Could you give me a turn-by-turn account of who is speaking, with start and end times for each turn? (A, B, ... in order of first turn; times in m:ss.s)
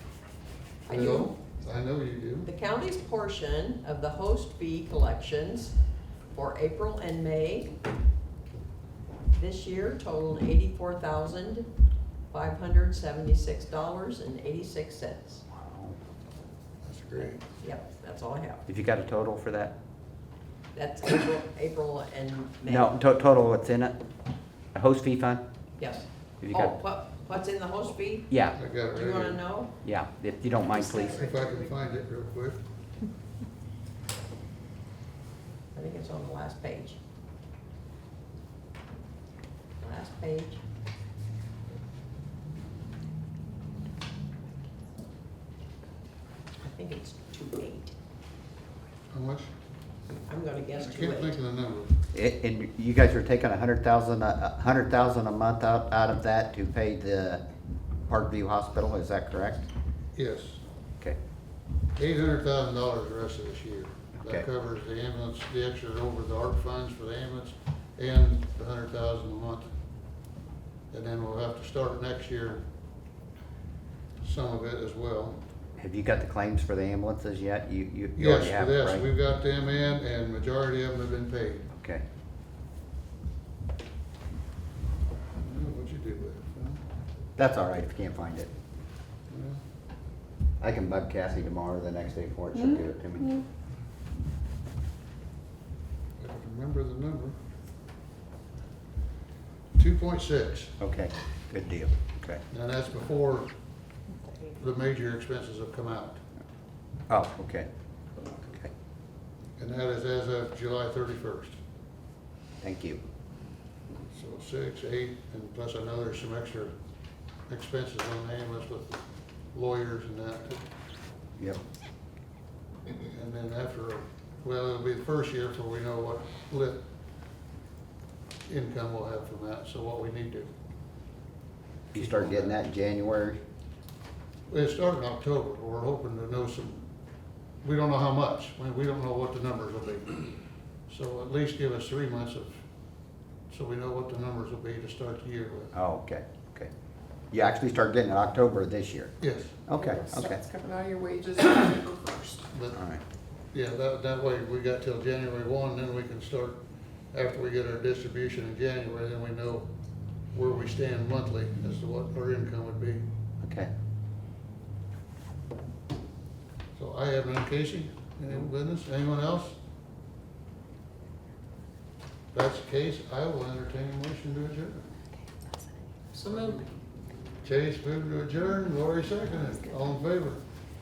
0:00.9-0:01.3 A
0:00.9-0:02.5 B
0:02.4-0:05.8 A
0:06.3-0:07.7 A
0:09.3-0:11.7 A
0:12.3-0:15.4 A
0:15.5-0:16.0 C
0:16.8-0:17.4 B
0:17.5-0:18.6 A
0:18.7-0:19.7 C
0:20.7-0:22.9 A
0:22.7-0:24.0 C
0:24.7-0:25.4 C
0:25.8-0:28.4 A
0:26.4-0:26.8 C
0:28.3-0:28.6 C
0:28.6-0:29.4 B
0:28.9-0:29.7 A
0:29.8-0:31.3 C
0:30.7-0:31.7 A
0:31.1-0:32.6 B
0:35.7-0:37.0 A
0:39.8-0:40.6 A
0:46.6-0:47.9 A
0:49.1-0:49.5 B
0:50.3-0:51.4 A
0:50.7-0:52.0 B
0:52.1-0:57.4 C
0:58.1-0:59.6 C
1:00.2-1:00.6 B
1:02.0-1:09.7 B
1:10.9-1:12.6 B
1:14.2-1:15.4 B
1:15.8-1:19.1 C
1:18.2-1:21.7 B
1:21.7-1:22.0 C
1:25.4-1:26.8 B
1:27.4-1:28.5 C
1:29.3-1:29.6 B
1:30.6-1:33.4 C
1:36.2-1:37.4 B
1:39.8-1:40.8 B
1:40.8-1:42.4 C
1:42.5-1:43.5 B
1:44.6-1:46.2 B
1:47.1-1:47.7 C
1:48.5-1:48.7 C
1:49.6-1:51.6 B
1:52.6-1:53.0 C
1:54.1-1:56.7 B
1:57.5-1:59.0 B
1:59.5-2:00.6 B
2:03.1-2:06.8 B
2:08.5-2:10.5 B
2:11.9-2:13.4 C
2:11.9-2:12.6 B
2:14.5-2:16.9 B
2:17.6-2:20.2 B
2:20.9-2:22.6 B
2:23.5-2:25.8 B
2:25.7-2:26.7 C
2:27.3-2:29.2 C
2:29.2-2:29.6 B
2:29.7-2:30.4 C
2:29.9-2:32.4 D
2:32.5-2:32.8 B
2:32.7-2:33.0 C
2:33.5-2:39.7 B
2:40.3-2:43.0 B
2:43.4-2:43.7 C
2:46.8-2:49.6 B
2:52.3-2:54.9 B
2:56.1-2:56.7 A
2:57.4-3:00.4 B